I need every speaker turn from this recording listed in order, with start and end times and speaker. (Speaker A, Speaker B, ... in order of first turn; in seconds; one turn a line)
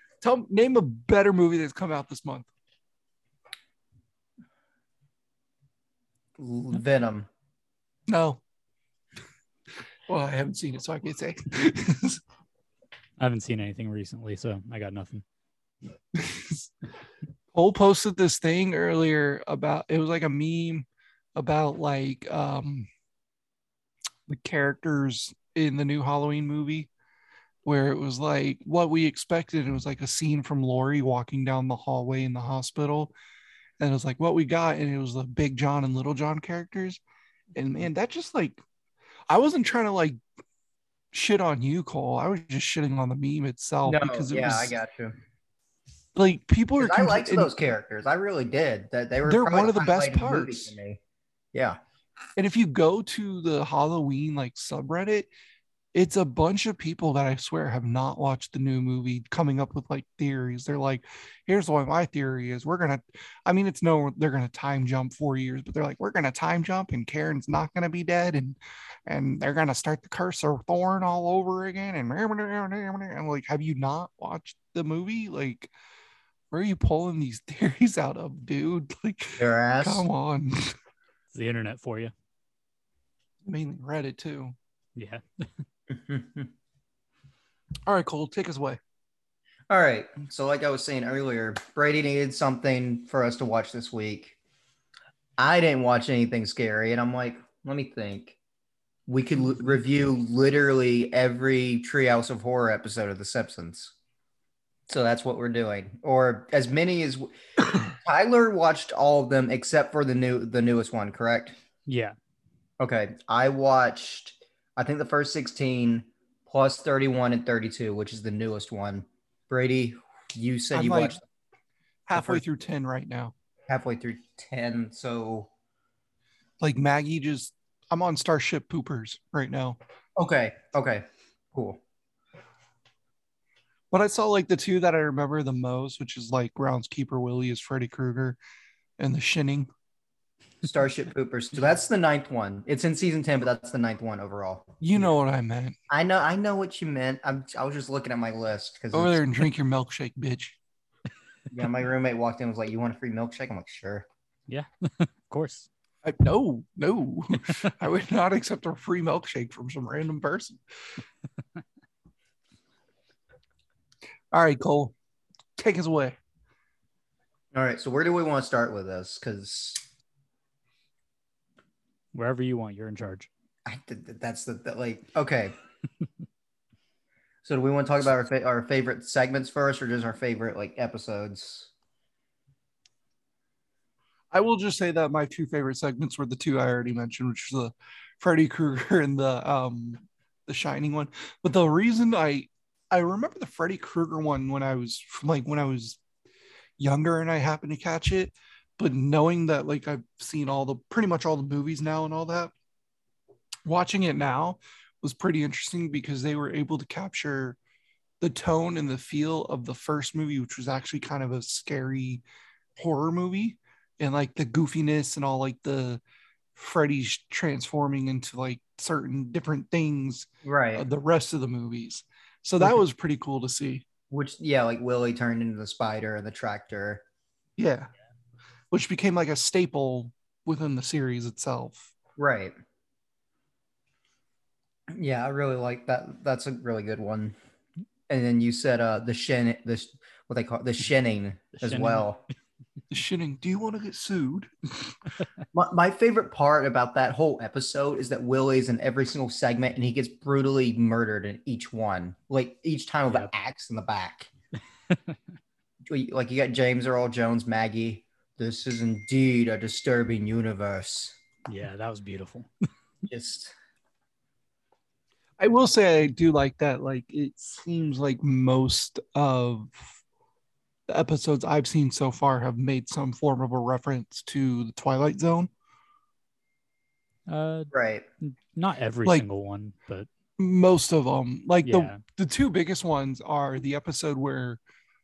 Speaker A: 0.2-2.5
Speaker B: 6.4-7.3
Speaker A: 8.1-8.4
Speaker A: 10.1-12.2
Speaker C: 13.2-15.2
Speaker A: 16.1-16.7
Speaker A: 17.5-22.9
Speaker A: 24.3-26.9
Speaker A: 27.6-33.1
Speaker A: 33.8-37.0
Speaker A: 37.5-38.6
Speaker A: 39.3-40.2
Speaker A: 41.1-44.8
Speaker B: 43.8-45.2
Speaker A: 46.1-47.5
Speaker B: 46.8-51.0
Speaker A: 49.2-50.7
Speaker A: 52.4-55.3
Speaker A: 55.9-75.7
Speaker A: 76.5-80.7
Speaker B: 79.4-80.0
Speaker C: 81.3-82.1
Speaker A: 83.4-84.5
Speaker C: 85.0-85.6
Speaker B: 85.9-86.5
Speaker A: 87.9-88.8
Speaker B: 89.7-94.3
Speaker B: 95.4-98.4
Speaker B: 99.1-103.9
Speaker B: 104.9-111.5
Speaker C: 111.8-112.2
Speaker B: 112.8-121.2
Speaker A: 120.7-121.2
Speaker A: 122.1-123.3
Speaker B: 122.1-122.4
Speaker B: 123.7-125.5
Speaker A: 126.6-129.8
Speaker B: 130.2-131.8
Speaker A: 133.9-138.4
Speaker A: 139.0-139.7
Speaker B: 140.6-145.1
Speaker A: 144.8-145.7
Speaker B: 145.9-149.2
Speaker A: 148.9-150.6
Speaker B: 151.5-154.1
Speaker C: 154.5-155.7
Speaker A: 156.0-160.6
Speaker A: 164.3-164.9
Speaker A: 165.6-166.2
Speaker B: 167.5-169.8
Speaker C: 172.1-173.3
Speaker B: 173.7-175.5
Speaker B: 177.4-181.7
Speaker A: 184.3-196.0
Speaker A: 196.8-202.5
Speaker A: 203.7-207.6
Speaker A: 208.2-212.2
Speaker A: 212.8-216.0
Speaker A: 216.5-223.8
Speaker B: 220.4-220.8
Speaker B: 224.1-227.0
Speaker A: 227.6-227.9
Speaker A: 228.7-231.9
Speaker B: 232.2-232.5
Speaker B: 234.9-237.3
Speaker B: 238.1-242.2
Speaker C: 241.6-242.1
Speaker A: 242.9-244.9
Speaker B: 245.5-254.3
Speaker C: 254.9-255.2
Speaker B: 255.9-261.2
Speaker C: 261.4-262.5
Speaker B: 263.1-263.5
Speaker A: 265.4-270.0
Speaker A: 270.9-275.5
Speaker C: 277.3-277.7
Speaker B: 277.7-278.0
Speaker C: 278.2-280.1
Speaker A: 280.4-284.6
Speaker C: 281.6-282.0